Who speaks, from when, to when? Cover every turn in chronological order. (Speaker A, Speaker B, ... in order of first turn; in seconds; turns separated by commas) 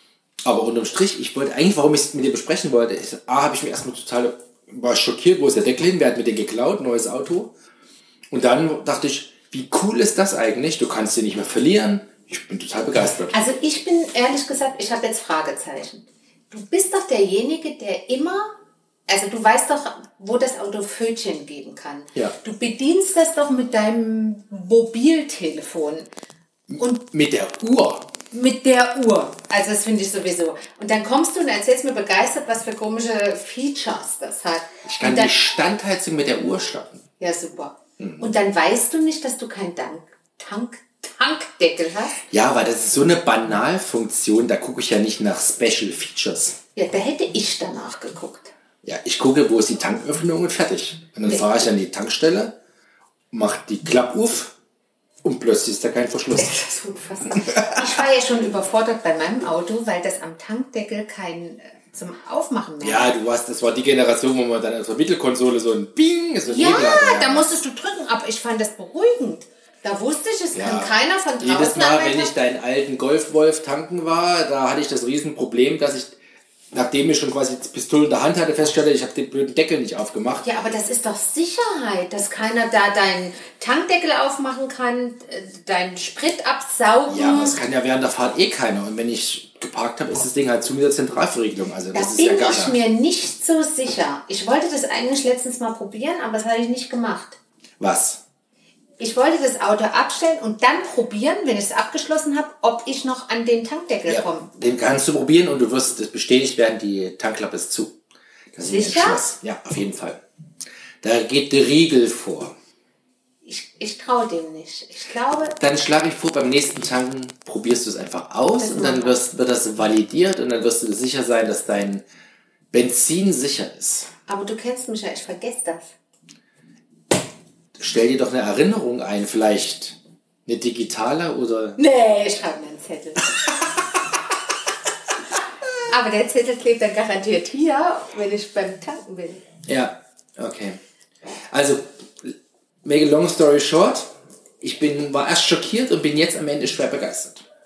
Speaker A: 0.4-7.5, Speaker A: 8.3-13.3, Speaker B: 13.3-18.5, Speaker B: 19.1-26.1, Speaker A: 26.7-28.1, Speaker B: 28.3-35.5, Speaker A: 34.9-37.0, Speaker B: 37.2-42.2, Speaker A: 42.3-46.5, Speaker B: 46.8-48.5, Speaker A: 48.8-52.5, Speaker B: 51.2-51.6, Speaker A: 53.3-54.5, Speaker A: 55.2-56.6, Speaker B: 56.3-63.1, Speaker A: 57.4-57.8, Speaker A: 62.8-67.5, Speaker B: 66.5-72.3, Speaker A: 70.5-76.2, Speaker A: 76.7-80.5, Speaker B: 80.4-87.6, Speaker A: 87.1-92.8, Speaker B: 91.9-97.4, Speaker A: 97.8-98.2, Speaker B: 99.0-104.5, Speaker A: 104.0-108.0, Speaker A: 108.5-110.2, Speaker B: 108.6-109.3, Speaker A: 111.0-112.5, Speaker B: 113.4-115.5, Speaker A: 115.6-122.0, Speaker B: 118.6-119.2, Speaker A: 122.7-124.1, Speaker B: 124.3-125.9, Speaker A: 127.8-131.8, Speaker B: 131.8-133.9, Speaker B: 135.9-139.4, Speaker A: 139.7-140.8, Speaker A: 141.5-147.4